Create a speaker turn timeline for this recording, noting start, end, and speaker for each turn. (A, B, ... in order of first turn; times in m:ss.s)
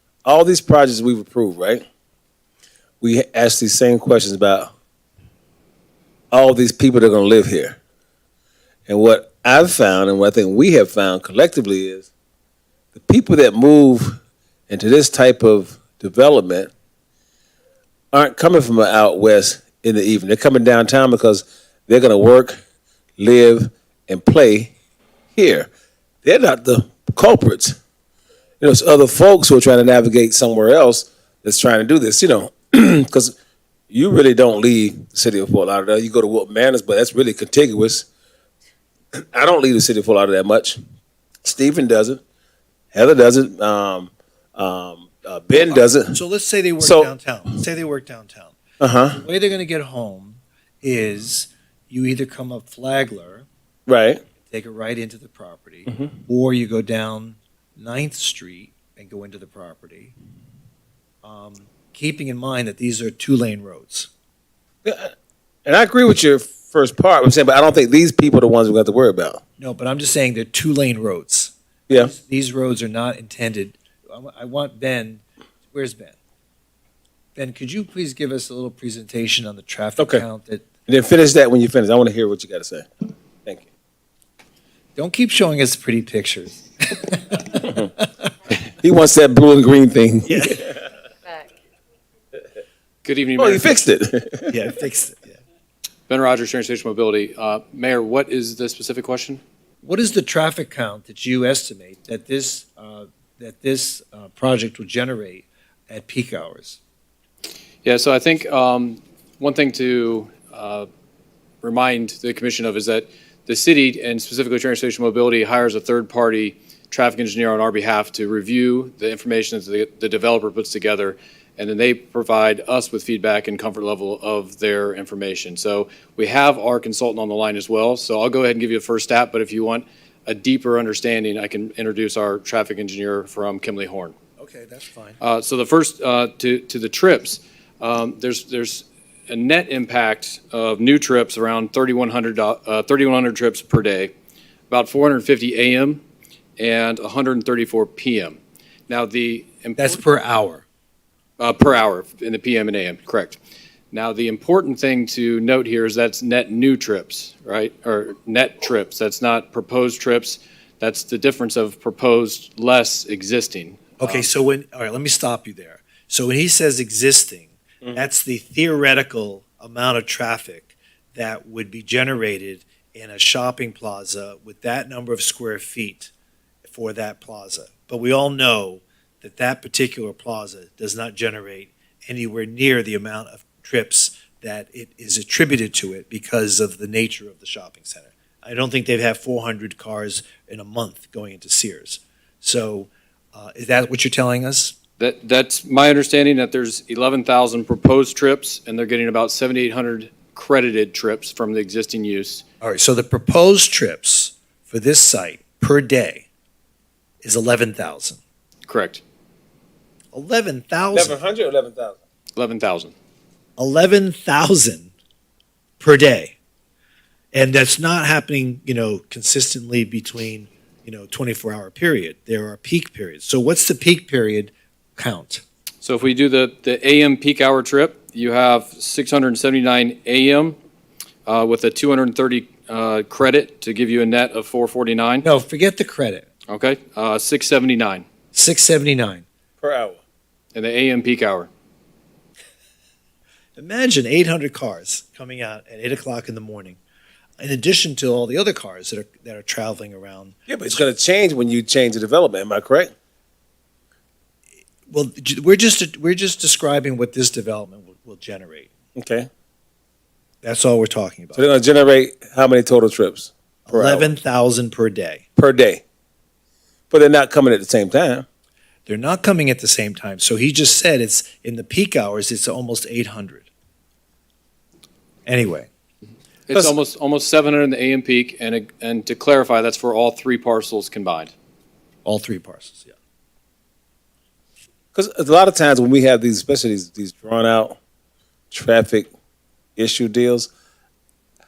0:00.2-0:01.8 A
0:03.0-0:04.7 A
0:06.3-0:07.8 A
0:08.9-0:12.1 A
0:12.9-0:14.2 A
0:14.7-0:16.7 A
0:18.1-0:22.6 A
0:23.2-0:24.7 A
0:25.4-0:25.7 A
0:26.2-0:27.8 A
0:28.6-0:33.3 A
0:33.9-0:38.1 A
0:39.1-0:40.8 A
0:41.4-0:42.2 A
0:42.9-0:46.2 A
0:45.6-0:48.6 B
0:46.8-0:47.1 A
0:48.8-0:49.2 A
0:49.1-0:53.4 B
0:53.9-0:54.2 A
0:54.5-1:00.1 B
1:01.2-1:04.1 B
1:04.8-1:05.1 A
1:05.7-1:09.4 A
1:09.6-1:16.2 B
1:17.4-1:20.7 B
1:20.0-1:20.2 A
1:20.9-1:22.9 A
1:25.0-1:28.3 B
1:28.8-1:30.8 A
1:30.3-1:30.6 B
1:33.0-1:33.8 C
1:33.4-1:34.5 A
1:34.5-1:35.3 B
1:36.1-1:39.4 C
1:39.8-1:46.8 B
1:47.8-1:50.9 C
1:51.6-2:14.1 C
2:14.4-2:15.2 B
2:15.2-2:24.1 C
2:24.7-2:26.0 C
2:26.6-2:30.0 C
2:29.8-2:30.6 B
2:31.4-2:33.4 C
2:33.9-2:44.3 C
2:44.0-2:56.1 B
2:56.6-3:14.8 B
3:15.0-3:22.4 C
3:22.6-3:26.3 B
3:27.2-3:28.2 B
3:28.7-3:29.0 C
3:30.1-3:31.2 B
3:30.9-3:32.0 A
3:32.4-3:32.9 C
3:33.6-3:34.9 B
3:35.8-3:36.3 B
3:37.3-3:45.4 B
3:45.8-3:50.6 C
3:51.2-3:55.2 C
3:55.2-3:56.2 B
3:56.5-3:58.0 C
3:58.3-3:59.2 B
3:59.6-4:00.0 A
4:00.5-4:01.5 C
4:03.6-4:06.8 B
4:07.4-4:10.8 B
4:10.5-4:12.9 A
4:14.9-4:18.7 B
4:19.0-4:19.3 A
4:20.4-4:21.5 B
4:21.4-4:24.1 A
4:23.7-4:25.2 B
4:25.4-4:25.8 A
4:26.9-4:28.2 A
4:28.9-4:33.5 B
4:35.2-4:35.7 B
4:36.5-4:41.3 C
4:42.0-4:42.9 B
4:44.9-4:47.8 A
4:48.5-4:49.1 A
4:49.8-4:50.5 A